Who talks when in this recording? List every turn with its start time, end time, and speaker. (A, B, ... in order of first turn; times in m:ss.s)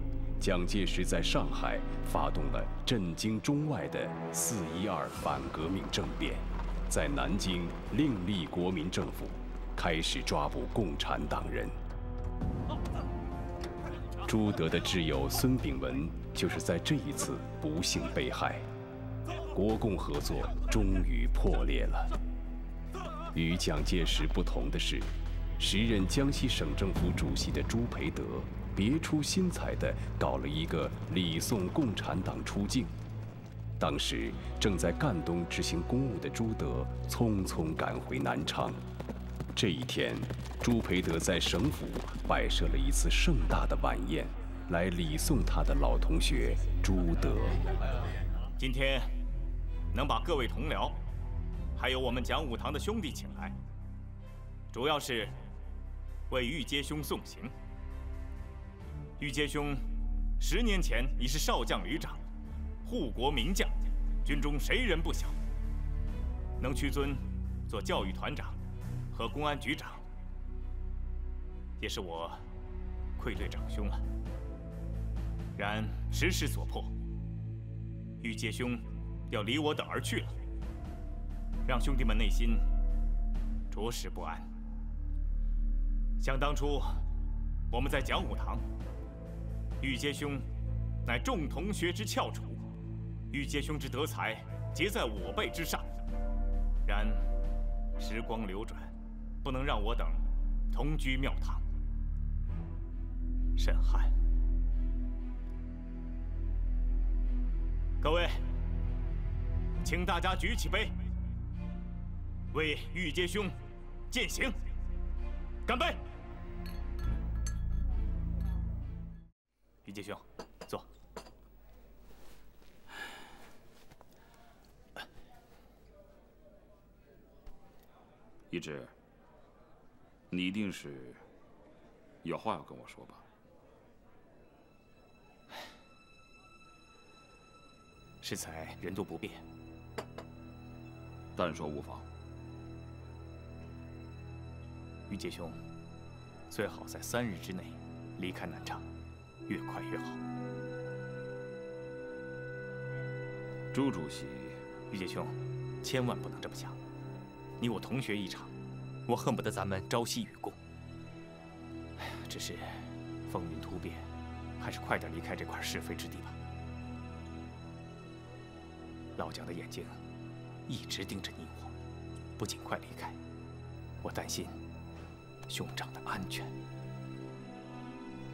0:00.4-0:11.8 A
0:14.2-0:18.7 A
0:19.4-0:22.1 A
0:23.3-0:33.0 A
0:33.8-0:38.8 A
0:39.5-0:47.6 A
0:48.6-0:49.1 B
0:49.9-0:51.0 B
0:51.8-0:53.6 B
0:54.7-0:55.4 B
0:56.3-0:57.5 B
0:59.2-0:59.8 B
1:00.4-1:02.2 B
1:02.8-1:05.4 B
1:06.6-1:08.6 B
1:09.1-1:10.0 B
1:11.8-1:12.4 B
1:13.2-1:14.0 B
1:15.6-1:16.9 B
1:18.2-1:20.4 B
1:21.7-1:22.7 B
1:23.7-1:24.5 B
1:26.2-1:27.0 B
1:27.7-1:28.6 B
1:29.8-1:30.4 B
1:31.1-1:32.6 B
1:33.3-1:36.0 B
1:36.8-1:37.3 B
1:38.0-1:41.6 B
1:43.6-1:44.1 B
1:48.0-1:48.4 B
1:49.8-1:51.0 B
1:52.5-1:53.6 B
1:54.1-1:54.6 B
1:55.7-1:56.0 B
1:59.8-2:00.9 B
2:08.5-2:08.9 C
2:10.3-2:11.2 C
2:12.2-2:13.2 C
2:18.2-2:19.4 B
2:21.4-2:22.0 C
2:25.1-2:25.6 B
2:26.5-2:28.8 B
2:29.5-2:30.2 B
2:33.7-2:34.6 C
2:34.9-2:36.8 B
2:37.6-2:38.5 B
2:39.1-2:40.6 B
2:42.0-2:44.1 B
2:44.6-2:46.4 B
2:49.2-2:50.0 B
2:50.7-2:51.7 B
2:52.4-2:53.2 B
2:54.0-2:54.6 B
2:55.5-2:56.5 B